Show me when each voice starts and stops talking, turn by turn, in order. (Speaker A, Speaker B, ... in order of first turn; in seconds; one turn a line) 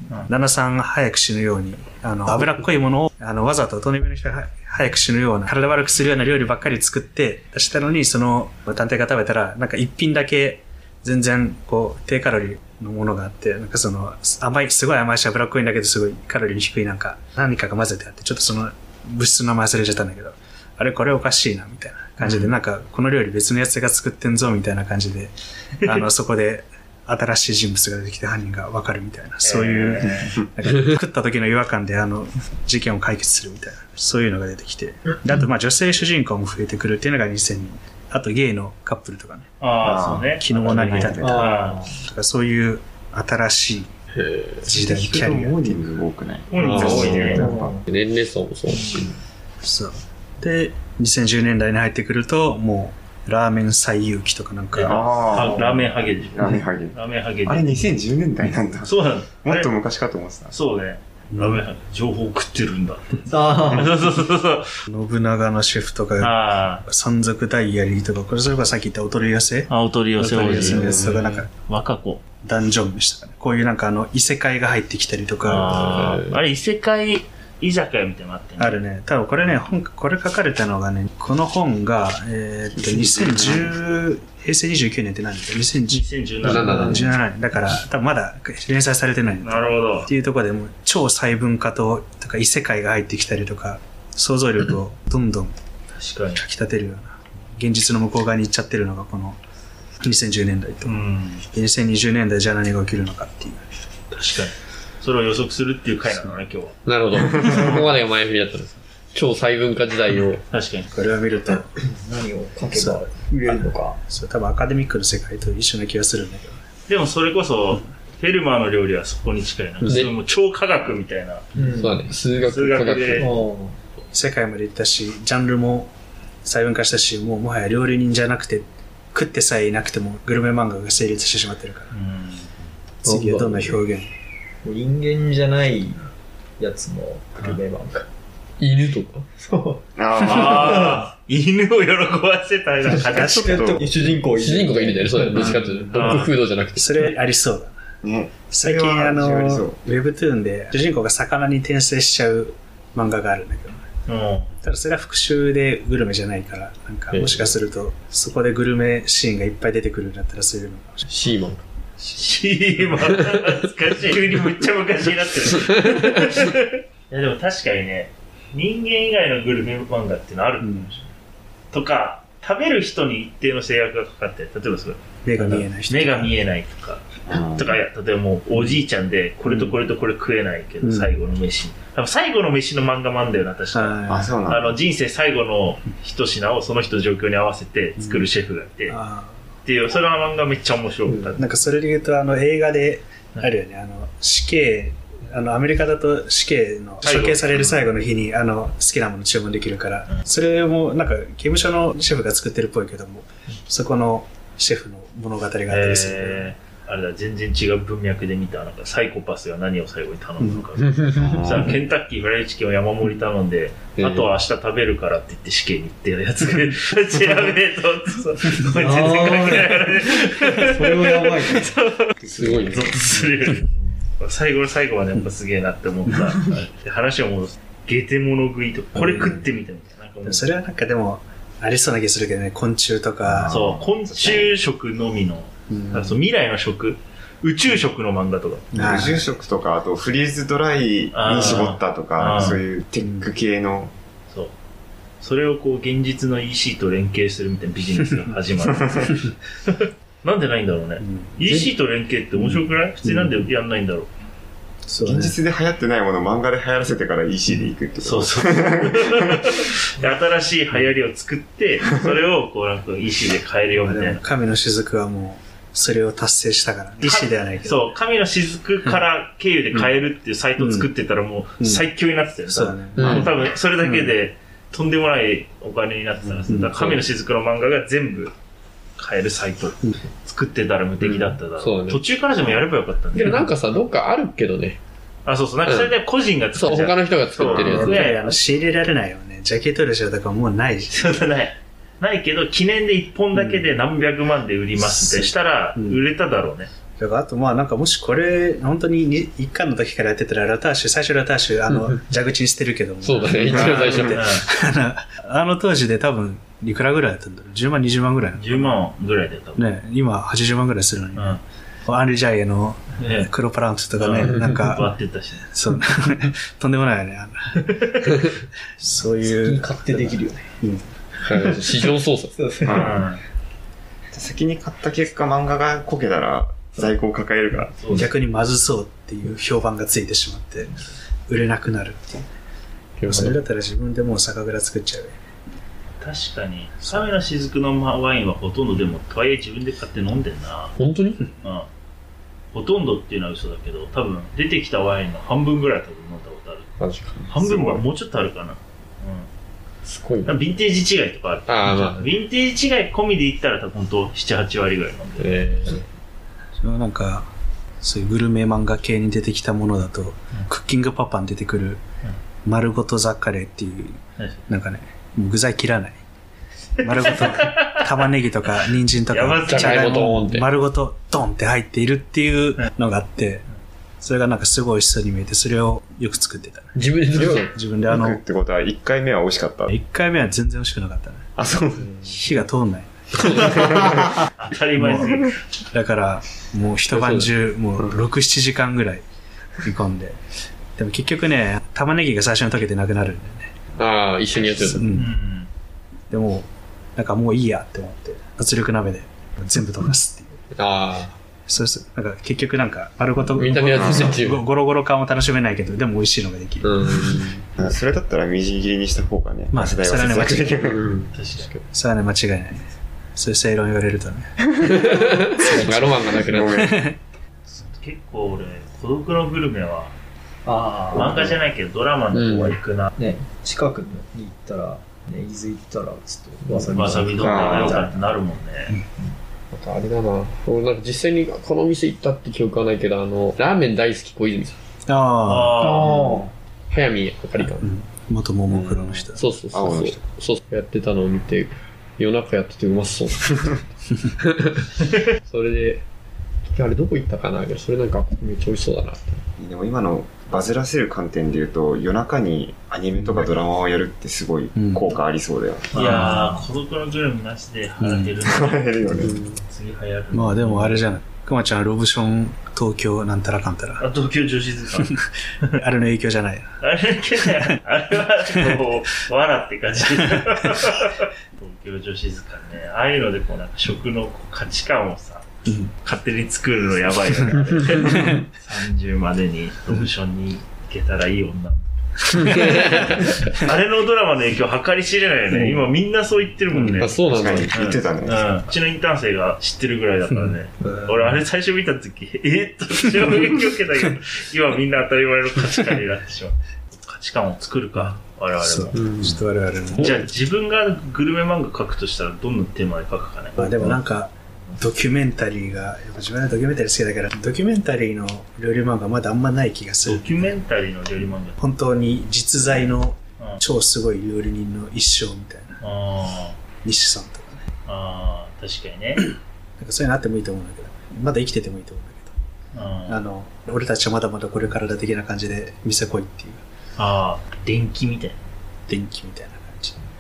Speaker A: 0.3-39.5
Speaker B: 22.2-22.5
Speaker B: 29.4-30.4
Speaker B: 39.6-41.8
Speaker C: 39.8-41.8
Speaker A: 40.4-43.9
Speaker D: 41.2-41.9
Speaker E: 44.1-44.8
Speaker A: 44.6-45.8
Speaker C: 44.8-47.8
Speaker B: 46.5-47.5
Speaker E: 46.5-49.1
Speaker D: 47.4-47.8
Speaker D: 48.7-49.1
Speaker A: 49.6-55.2
Speaker B: 54.7-57.7
Speaker C: 54.9-60.6
Speaker B: 58.8-59.7
Speaker B: 60.5-64.7
Speaker A: 61.3-61.6
Speaker D: 63.3-63.9
Speaker A: 64.9-71.5
Speaker B: 66.2-66.8
Speaker B: 69.7-72.2
Speaker E: 70.5-71.2
Speaker A: 72.4-75.9
Speaker B: 75.4-78.8
Speaker E: 75.8-76.4
Speaker A: 78.6-95.5
Speaker C: 82.8-83.7
Speaker B: 85.9-86.9
Speaker E: 86.4-87.1
Speaker B: 89.4-90.1
Speaker B: 95.9-96.4
Speaker A: 96.3-99.4
Speaker A: 100.0-101.0
Speaker B: 100.8-101.4
Speaker A: 101.5-103.6
Speaker B: 104.1-106.8
Speaker E: 106.8-110.4
Speaker B: 110.5-110.9
Speaker A: 110.9-111.7
Speaker D: 111.8-114.0
Speaker A: 112.7-116.6
Speaker B: 116.9-121.4
Speaker A: 119.8-120.1
Speaker E: 119.9-120.2
Speaker D: 121.5-122.0
Speaker E: 121.6-123.4
Speaker B: 122.4-123.3
Speaker D: 123.1-123.8
Speaker A: 124.1-125.9
Speaker A: 126.4-131.9
Speaker B: 131.9-132.5
Speaker A: 133.0-134.1
Speaker E: 133.1-133.8
Speaker D: 134.6-136.1
Speaker D: 136.6-138.1
Speaker E: 138.6-139.3
Speaker D: 139.4-139.8
Speaker C: 140.0-141.0
Speaker B: 140.2-143.6
Speaker D: 140.8-141.1
Speaker D: 142.9-146.1
Speaker A: 143.0-143.8
Speaker C: 143.2-143.9
Speaker E: 144.3-147.1
Speaker B: 145.9-146.3
Speaker A: 146.7-147.8
Speaker C: 148.0-149.9
Speaker A: 148.5-153.8
Speaker B: 154.1-154.5
Speaker A: 154.6-161.0
Speaker E: 157.1-157.5
Speaker E: 161.1-161.6
Speaker B: 162.0-171.1
Speaker A: 170.6-170.9
Speaker B: 171.7-189.0
Speaker A: 175.2-176.4
Speaker C: 177.3-177.8
Speaker A: 179.5-179.7
Speaker A: 180.8-181.1
Speaker A: 183.7-184.3
Speaker C: 184.1-184.8
Speaker A: 188.0-188.2
Speaker A: 188.9-189.3
Speaker B: 189.6-191.4
Speaker D: 191.1-191.4
Speaker A: 191.4-206.5
Speaker B: 197.0-197.8
Speaker B: 205.7-230.5
Speaker A: 210.4-210.6
Speaker E: 210.9-211.3
Speaker C: 211.2-211.8
Speaker E: 214.0-214.3
Speaker D: 218.8-221.7
Speaker E: 222.3-222.9
Speaker A: 228.9-229.4
Speaker A: 230.2-233.5
Speaker C: 233.3-234.6
Speaker B: 233.5-238.7
Speaker A: 235.7-236.2
Speaker A: 238.7-239.3
Speaker C: 238.8-243.9
Speaker B: 241.1-242.6
Speaker A: 243.0-243.3
Speaker B: 245.2-254.1
Speaker A: 251.0-251.6
Speaker A: 253.0-253.4
Speaker A: 254.9-255.4
Speaker C: 255.0-259.6
Speaker B: 258.0-264.2
Speaker A: 263.8-267.9
Speaker B: 267.0-278.3
Speaker A: 270.6-270.9
Speaker A: 271.6-271.9
Speaker A: 272.5-274.1
Speaker E: 273.0-273.3
Speaker A: 276.5-277.0
Speaker B: 279.0-283.5
Speaker E: 281.0-282.0
Speaker E: 283.1-284.8
Speaker B: 285.2-288.4
Speaker E: 285.7-285.9
Speaker E: 286.5-288.1
Speaker A: 287.4-291.1
Speaker B: 290.9-296.7
Speaker A: 293.3-293.7
Speaker A: 294.8-296.0
Speaker A: 297.0-308.8
Speaker E: 301.7-302.0
Speaker E: 303.0-304.2
Speaker B: 304.1-304.5
Speaker B: 308.4-309.7
Speaker A: 309.6-314.9
Speaker B: 311.1-311.4
Speaker B: 313.0-313.3
Speaker B: 313.9-315.4
Speaker A: 315.5-318.2
Speaker B: 317.7-318.3
Speaker A: 318.8-320.9
Speaker D: 319.2-320.5
Speaker E: 321.2-322.5
Speaker D: 322.3-322.9
Speaker C: 322.6-323.0
Speaker B: 322.7-323.2
Speaker C: 324.1-327.8
Speaker B: 327.8-328.1
Speaker A: 327.9-330.8
Speaker A: 331.3-332.2
Speaker E: 333.0-333.4
Speaker A: 333.1-335.2
Speaker B: 336.0-340.8
Speaker A: 336.8-337.1
Speaker E: 340.8-341.2
Speaker B: 342.5-346.7
Speaker E: 346.8-347.2
Speaker C: 347.2-347.9
Speaker B: 347.3-349.3
Speaker E: 349.9-350.4
Speaker B: 350.2-355.4
Speaker E: 351.5-352.1
Speaker E: 355.2-355.9
Speaker A: 356.6-357.3
Speaker A: 357.8-361.8
Speaker A: 362.4-366.0
Speaker B: 366.8-367.8
Speaker A: 366.8-373.5
Speaker B: 369.1-370.2
Speaker E: 369.4-370.5
Speaker A: 374.0-378.2
Speaker E: 376.8-377.6
Speaker C: 377.9-379.8
Speaker A: 379.7-381.2
Speaker C: 381.4-381.9
Speaker A: 381.9-383.3
Speaker E: 383.2-383.6
Speaker C: 383.5-384.1
Speaker B: 384.2-385.4
Speaker A: 384.8-385.2
Speaker A: 385.7-389.0
Speaker E: 386.9-387.3
Speaker A: 389.6-390.2
Speaker A: 390.8-393.6
Speaker E: 393.8-394.9
Speaker B: 394.5-395.5
Speaker A: 394.5-395.1
Speaker A: 396.1-400.3
Speaker E: 400.6-401.1
Speaker A: 401.5-407.2
Speaker E: 403.3-404.4
Speaker C: 403.8-404.1
Speaker E: 406.6-407.5
Speaker C: 407.6-410.9
Speaker A: 409.5-410.6
Speaker E: 410.6-411.6
Speaker B: 411.1-411.5
Speaker A: 411.7-412.6
Speaker A: 413.1-417.0
Speaker E: 414.7-416.7
Speaker C: 416.3-416.8
Speaker B: 417.5-419.9
Speaker D: 420.4-421.1
Speaker B: 420.9-422.9
Speaker C: 421.0-421.4
Speaker E: 422.1-422.6
Speaker D: 423.0-428.0
Speaker E: 426.5-426.8
Speaker B: 426.7-428.8
Speaker C: 427.2-427.8
Speaker E: 429.5-434.6
Speaker A: 434.9-435.6
Speaker B: 435.2-436.2
Speaker D: 435.6-436.3
Speaker E: 436.7-437.7
Speaker A: 437.6-439.2
Speaker E: 438.5-445.8
Speaker C: 439.5-440.0
Speaker E: 446.5-449.2
Speaker C: 449.4-455.8
Speaker A: 454.5-454.9
Speaker B: 455.7-458.7
Speaker A: 455.8-456.4
Speaker A: 457.8-458.1
Speaker C: 458.2-459.2
Speaker E: 458.9-459.4
Speaker B: 459.4-460.9
Speaker A: 460.1-463.8
Speaker B: 463.8-464.9
Speaker A: 464.8-466.5
Speaker B: 466.6-475.2
Speaker A: 470.2-470.7
Speaker A: 475.5-475.7
Speaker B: 475.8-487.0
Speaker A: 477.9-478.2
Speaker E: 482.4-482.9
Speaker A: 485.3-485.7
Speaker A: 486.5-486.9
Speaker E: 486.8-487.6
Speaker C: 487.1-488.4
Speaker B: 487.5-499.1
Speaker A: 490.1-490.8
Speaker A: 497.8-500.1
Speaker E: 498.7-499.2
Speaker B: 499.8-503.8
Speaker A: 503.4-510.4
Speaker B: 509.9-511.4
Speaker A: 511.4-515.5
Speaker B: 515.6-516.4
Speaker A: 516.6-517.4
Speaker B: 517.7-519.0
Speaker A: 519.6-522.1
Speaker B: 522.5-523.0
Speaker A: 522.9-526.4
Speaker B: 526.8-528.2
Speaker A: 528.7-529.8